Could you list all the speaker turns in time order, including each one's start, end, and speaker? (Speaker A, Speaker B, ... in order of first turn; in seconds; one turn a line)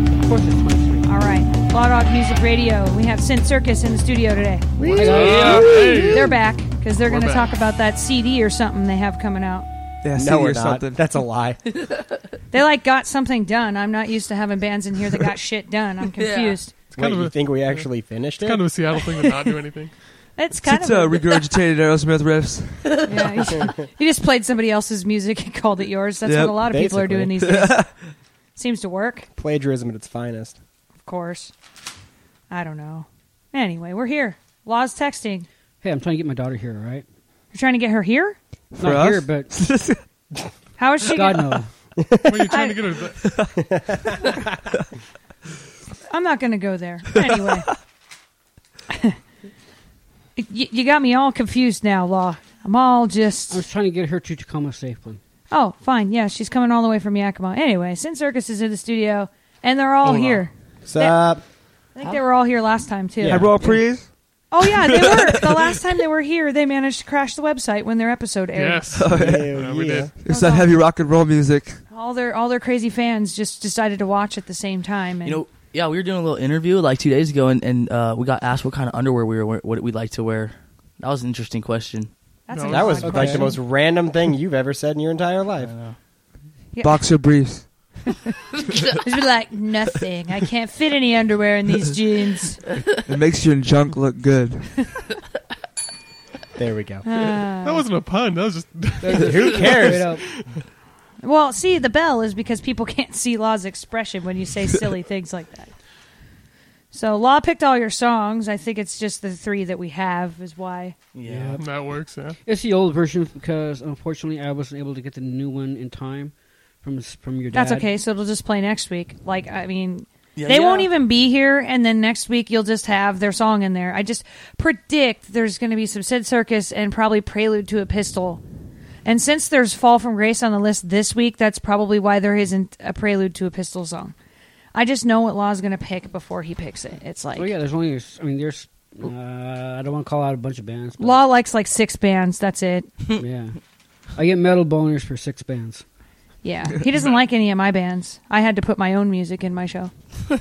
Speaker A: 0.2-1.1
Speaker B: 1.0-9.7
Speaker C: 4.8-6.0
Speaker A: 4.9-5.9
Speaker D: 5.0-7.5
Speaker E: 10.0-11.3
Speaker C: 10.2-11.6
Speaker B: 12.5-16.7
Speaker F: 16.2-16.6
Speaker D: 16.9-20.4
Speaker C: 17.0-18.8
Speaker B: 20.4-21.5
Speaker E: 20.6-23.1
Speaker B: 23.1-29.3
Speaker E: 26.3-26.8
Speaker C: 26.7-27.4
Speaker E: 27.4-27.9
Speaker C: 29.4-30.6
Speaker B: 31.0-31.6
Speaker B: 32.5-35.5
Speaker A: 35.8-37.0
Speaker B: 37.5-38.4
Speaker E: 38.8-40.0
Speaker A: 38.8-39.6
Speaker B: 40.8-42.0
Speaker A: 41.1-41.8
Speaker D: 42.2-43.3
Speaker B: 42.5-42.8
Speaker C: 43.6-44.0
Speaker B: 46.1-47.7
Speaker B: 50.4-53.6
Speaker A: 53.5-55.2
Speaker B: 55.5-63.5
Speaker E: 60.0-60.5
Speaker C: 60.9-61.5
Speaker C: 63.2-63.6
Speaker E: 63.2-65.4
Speaker B: 64.5-68.8
Speaker D: 68.5-70.1
Speaker E: 69.0-71.8
Speaker C: 69.1-70.1
Speaker B: 70.3-70.7
Speaker B: 71.9-75.4
Speaker F: 75.2-82.1
Speaker B: 82.5-83.6
Speaker D: 82.5-83.4
Speaker C: 82.7-85.9
Speaker F: 85.6-86.0
Speaker B: 86.7-87.7
Speaker E: 86.8-88.1
Speaker B: 89.0-92.7
Speaker E: 93.1-95.0
Speaker C: 96.6-97.1
Speaker B: 97.0-97.8
Speaker D: 97.6-100.5
Speaker A: 99.0-100.2
Speaker C: 99.2-100.1
Speaker B: 101.2-105.8
Speaker B: 106.9-111.0
Speaker F: 111.2-111.6
Speaker A: 111.2-117.9
Speaker D: 111.6-112.4
Speaker B: 117.5-128.4
Speaker F: 120.4-120.9
Speaker B: 129.1-134.2
Speaker B: 134.7-137.5
Speaker A: 137.3-141.2
Speaker B: 141.0-142.9
Speaker A: 143.2-143.6
Speaker A: 144.2-145.8
Speaker B: 146.4-149.9